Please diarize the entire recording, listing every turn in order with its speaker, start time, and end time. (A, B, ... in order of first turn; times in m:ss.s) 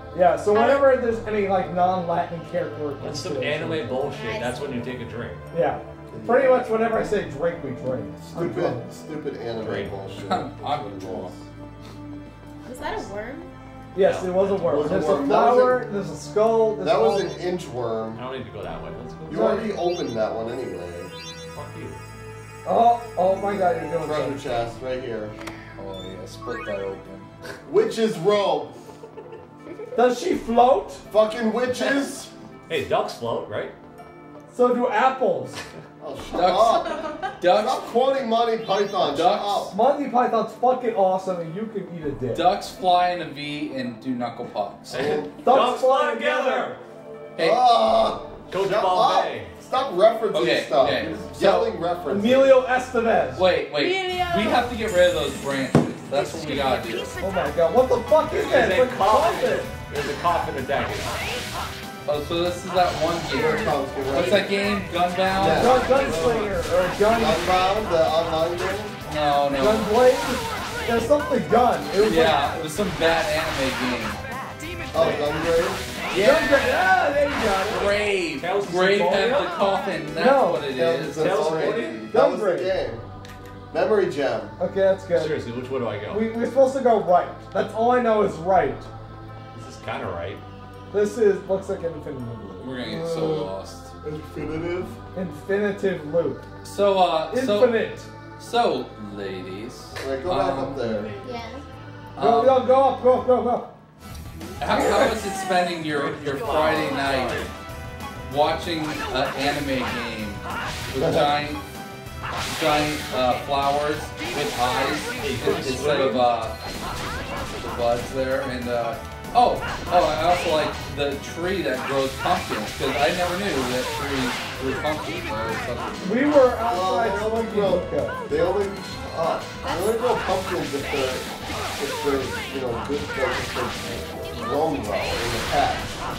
0:00.1-0:04.0 A
0:00.5-0:00.9 B
0:03.0-0:05.4 C
0:04.1-0:04.8 B
0:05.5-0:08.8 A
0:06.1-0:06.9 D
0:08.3-0:11.5 D
0:09.6-0:10.0 C
0:10.2-0:11.3 E
0:12.6-0:13.5 B
0:13.9-0:17.4 A
0:14.0-0:14.9 C
0:14.7-0:15.9 D
0:16.8-0:18.2 D
0:18.2-0:19.5 C
0:19.3-0:21.1 D
0:19.3-0:19.7 A
0:21.6-0:22.0 C
0:22.6-0:24.4 A
0:23.8-0:25.4 D
0:25.8-0:27.3 E
0:27.6-0:28.8 D
0:30.0-0:31.0 A
0:31.1-0:32.3 D
0:32.7-0:33.7 C
0:34.5-0:35.6 A
0:36.0-0:39.7 D
0:36.3-0:37.9 E
0:39.0-0:39.7 E
0:39.7-0:42.4 A
0:42.3-0:45.1 E
0:44.9-0:46.8 C
0:44.9-0:45.4 D
0:45.4-0:46.8 A
0:47.4-0:47.7 E
0:47.4-0:52.6 D
0:48.5-0:49.5 C
0:50.3-0:51.8 E
0:52.1-0:53.4 A
0:53.4-0:57.2 E
0:53.7-0:54.7 B
0:57.2-0:59.7 A
0:58.3-1:01.2 C
1:02.1-1:06.4 E
1:03.3-1:04.6 D
1:05.4-1:06.6 D
1:05.5-1:07.5 A
1:07.1-1:09.0 D
1:09.1-1:10.0 E
1:09.5-1:12.5 A
1:12.0-1:14.2 E
1:14.9-1:15.9 D
1:16.1-1:16.6 E
1:16.1-1:18.0 A
1:17.7-1:19.6 C
1:17.7-1:22.0 E
1:19.2-1:19.5 A
1:20.2-1:20.7 A
1:20.7-1:23.0 D
1:21.1-1:22.0 C
1:22.1-1:22.8 A
1:23.7-1:24.6 D
1:24.6-1:25.3 A
1:25.2-1:26.3 C
1:26.1-1:28.9 A
1:29.5-1:30.4 C
1:30.9-1:32.7 A
1:32.6-1:33.9 E
1:32.8-1:33.5 D
1:34.0-1:35.0 D
1:35.1-1:36.4 A
1:36.6-1:41.0 E
1:37.3-1:38.1 A
1:40.0-1:41.1 D
1:41.2-1:41.6 B
1:42.2-1:42.6 E
1:42.2-1:43.7 A
1:44.6-1:47.5 E
1:44.7-1:45.2 A
1:45.8-1:47.5 C
1:48.3-1:51.6 E
1:51.0-1:51.3 D
1:52.5-1:56.6 E
1:55.2-1:56.5 C
1:57.5-2:06.3 E
2:06.0-2:08.2 A
2:06.6-2:16.0 D
2:09.6-2:10.1 B
2:14.3-2:15.2 B